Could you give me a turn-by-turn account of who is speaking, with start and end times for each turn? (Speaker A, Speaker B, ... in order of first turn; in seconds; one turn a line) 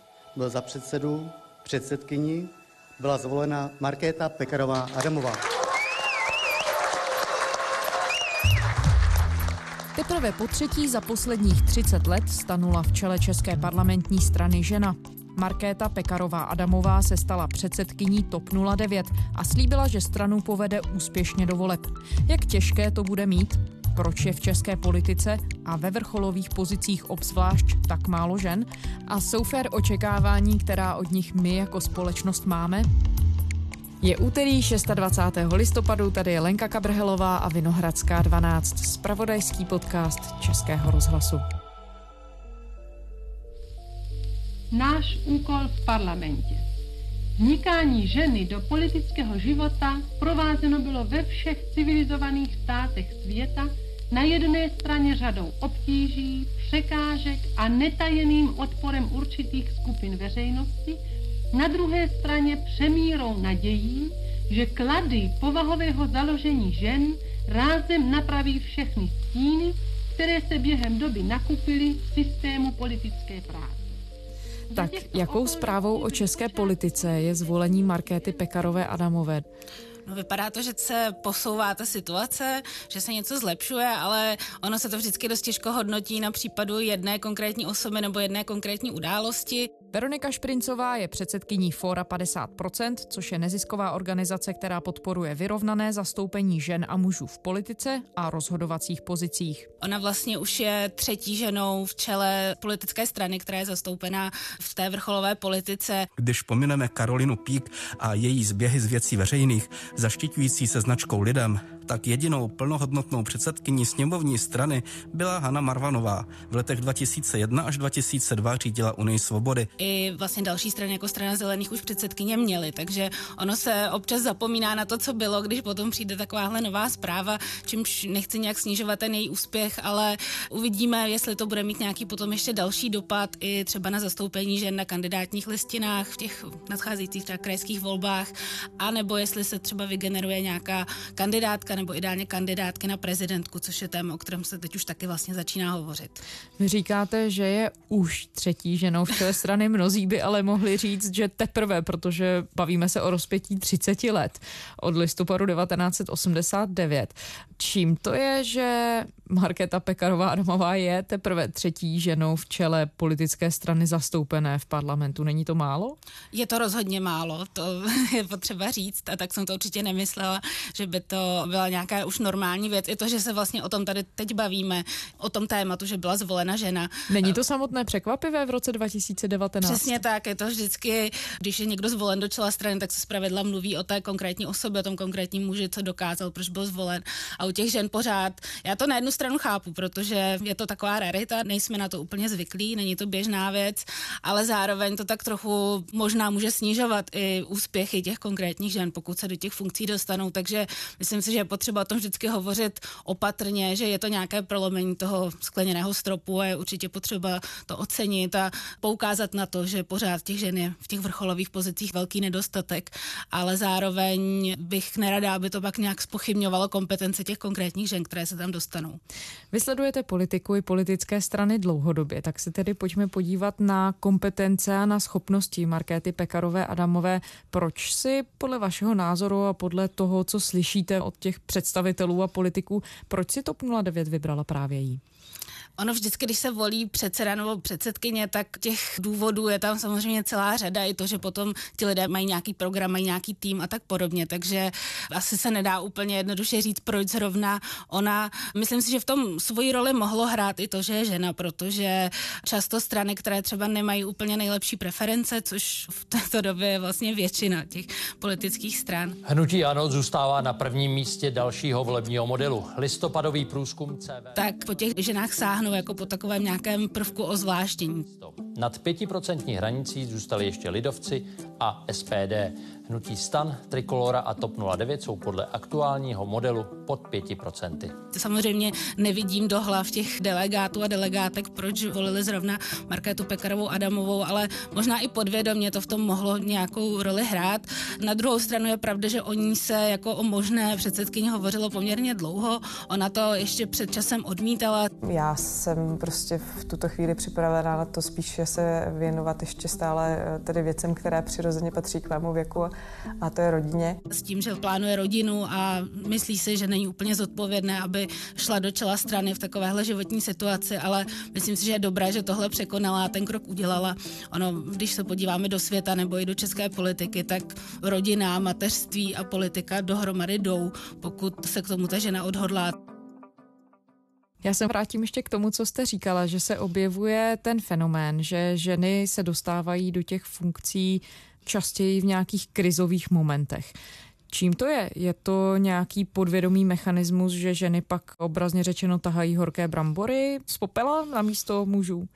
Speaker A: 0.3-5.4
Speaker B: 9.9-32.9
Speaker B: 34.0-41.4
Speaker C: 44.7-46.6
Speaker C: 47.4-61.0
Speaker C: 61.5-73.9
Speaker C: 74.7-78.3
Speaker B: 74.7-79.4
Speaker D: 80.0-89.7
Speaker B: 89.9-99.7
Speaker D: 99.8-106.1
Speaker E: 106.2-119.7
Speaker D: 119.8-146.2
Speaker B: 146.6-166.0
Speaker D: 166.3-177.3
Speaker B: 177.1-180.0
Speaker D: 179.6-219.0
Speaker B: 219.5-235.0
Speaker D: 235.8-259.2
Speaker F: 259.2-264.4
Speaker D: 264.4-268.1
Speaker F: 268.1-277.9
Speaker D: 278.1-294.9
Speaker G: 295.0-304.0
Speaker D: 304.1-322.8
Speaker B: 324.4-333.7
Speaker B: 334.3-342.1